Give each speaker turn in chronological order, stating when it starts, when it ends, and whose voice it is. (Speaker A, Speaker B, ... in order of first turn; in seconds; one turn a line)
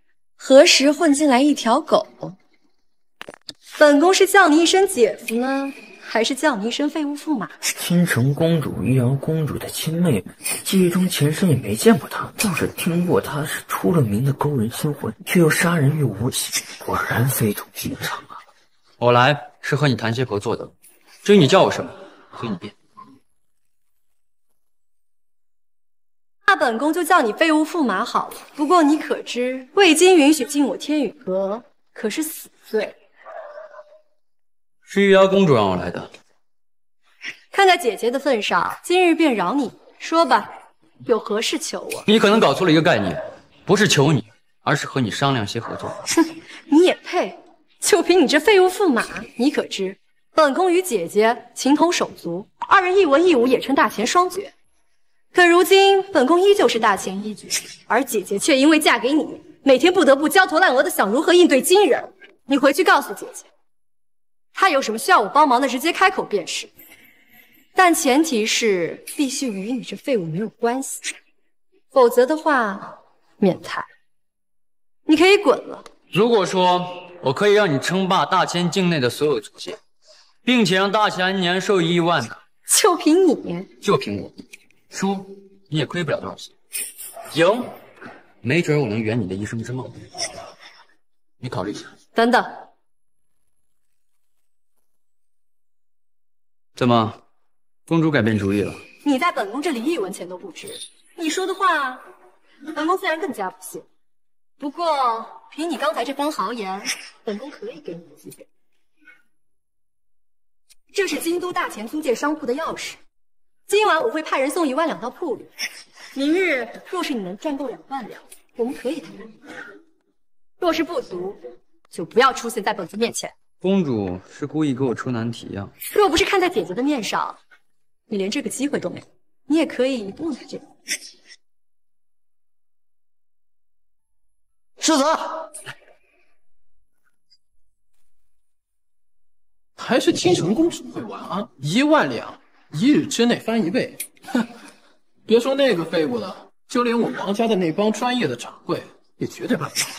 Speaker A: 0.4-2.4
Speaker A: 3.8-7.5
Speaker B: 7.7-18.3
Speaker C: 19.0-20.7
Speaker C: 21.2-22.7
Speaker A: 26.5-33.0
Speaker C: 34.9-36.1
Speaker A: 37.5-42.0
Speaker C: 42.1-46.0
Speaker A: 46.7-54.5
Speaker A: 55.3-63.5
Speaker A: 64.5-66.7
Speaker A: 67.8-71.1
Speaker A: 71.9-73.9
Speaker A: 75.1-75.9
Speaker C: 76.1-79.8
Speaker C: 80.5-82.4
Speaker A: 82.7-83.7
Speaker C: 83.8-84.4
Speaker C: 84.9-86.5
Speaker C: 87.3-87.7
Speaker C: 88.4-90.0
Speaker C: 91.4-91.9
Speaker A: 92.2-92.6
Speaker C: 96.8-97.2
Speaker C: 97.9-98.8
Speaker A: 99.0-102.1
Speaker A: 102.7-103.8
Speaker A: 104.6-108.3
Speaker A: 110.9-113.0
Speaker A: 113.7-115.5
Speaker A: 116.1-119.3
Speaker A: 120.6-121.4
Speaker A: 121.9-123.3
Speaker C: 123.6-125.7
Speaker A: 125.9-127.4
Speaker A: 128.1-130.6
Speaker D: 139.8-144.0
Speaker D: 145.3-149.8